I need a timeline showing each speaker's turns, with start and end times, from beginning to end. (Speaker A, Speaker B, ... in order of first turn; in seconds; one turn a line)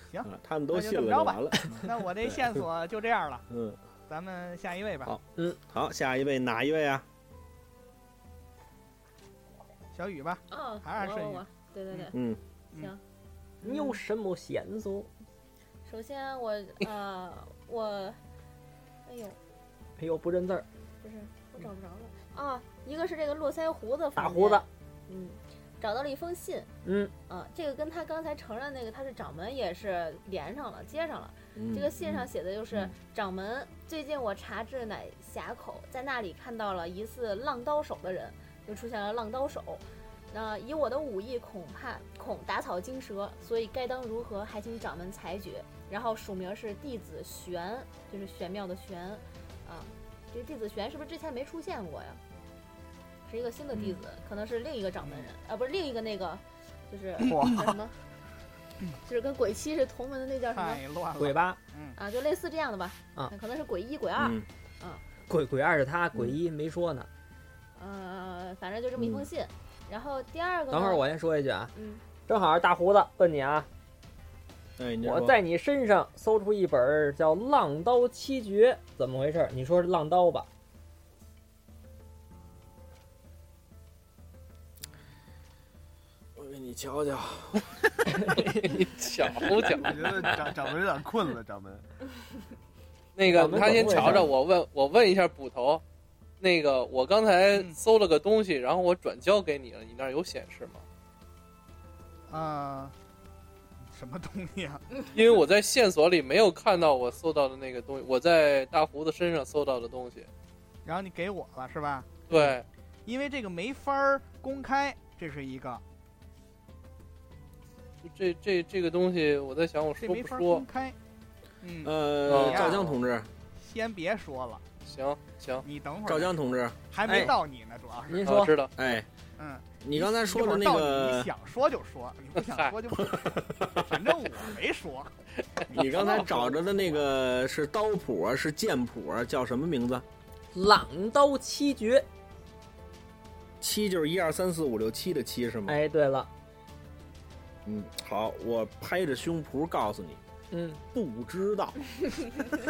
Speaker A: 0.1-3.5
Speaker B: 0.2-2.6
Speaker B: 3.5-3.8
Speaker A: 4.1-5.1
Speaker B: 5.0-7.0
Speaker A: 9.9-12.1
Speaker C: 10.5-12.2
Speaker B: 12.1-12.4
Speaker C: 12.7-13.0
Speaker C: 13.6-14.0
Speaker D: 13.6-15.1
Speaker C: 15.8-18.2
Speaker C: 19.0-19.4
Speaker D: 20.0-20.6
Speaker C: 21.0-26.7
Speaker D: 24.1-24.6
Speaker D: 26.8-27.1
Speaker C: 27.3-52.2
Speaker B: 31.5-32.9
Speaker C: 53.3-58.0
Speaker B: 53.7-54.0
Speaker A: 55.0-55.3
Speaker A: 57.2-57.5
Speaker C: 59.0-60.8
Speaker A: 60.5-62.0
Speaker D: 61.2-61.6
Speaker C: 62.0-65.0
Speaker B: 64.2-64.5
Speaker D: 65.3-67.1
Speaker C: 67.8-71.1
Speaker D: 70.7-71.7
Speaker C: 71.7-72.0
Speaker D: 72.3-73.7
Speaker B: 74.8-75.4
Speaker D: 75.0-80.5
Speaker B: 86.3-87.8
Speaker D: 88.2-88.8
Speaker E: 88.4-90.0
Speaker F: 89.8-91.8
Speaker E: 93.2-95.8
Speaker D: 93.2-94.3
Speaker B: 93.8-94.3
Speaker E: 96.4-100.8
Speaker A: 97.5-97.8
Speaker A: 102.3-102.9
Speaker A: 103.9-104.8
Speaker E: 105.1-110.3
Speaker A: 110.8-112.4
Speaker E: 112.3-112.7
Speaker A: 113.0-115.8
Speaker E: 118.0-120.6
Speaker A: 120.0-121.0
Speaker A: 121.6-123.0
Speaker B: 121.8-123.3
Speaker E: 122.3-122.8
Speaker A: 123.5-124.6
Speaker E: 124.8-125.6
Speaker A: 125.6-126.3
Speaker B: 126.0-127.3
Speaker A: 126.9-128.3
Speaker D: 127.0-127.4
Speaker D: 128.1-128.5
Speaker E: 128.2-128.7
Speaker B: 128.8-129.1
Speaker A: 129.4-135.1
Speaker B: 129.8-131.3
Speaker E: 132.4-132.7
Speaker B: 133.2-133.8
Speaker A: 135.7-137.0
Speaker B: 135.7-140.0
Speaker D: 140.5-142.0
Speaker B: 143.6-145.8
Speaker D: 145.7-146.3
Speaker B: 147.6-150.2
Speaker D: 150.5-150.8
Speaker B: 150.9-151.8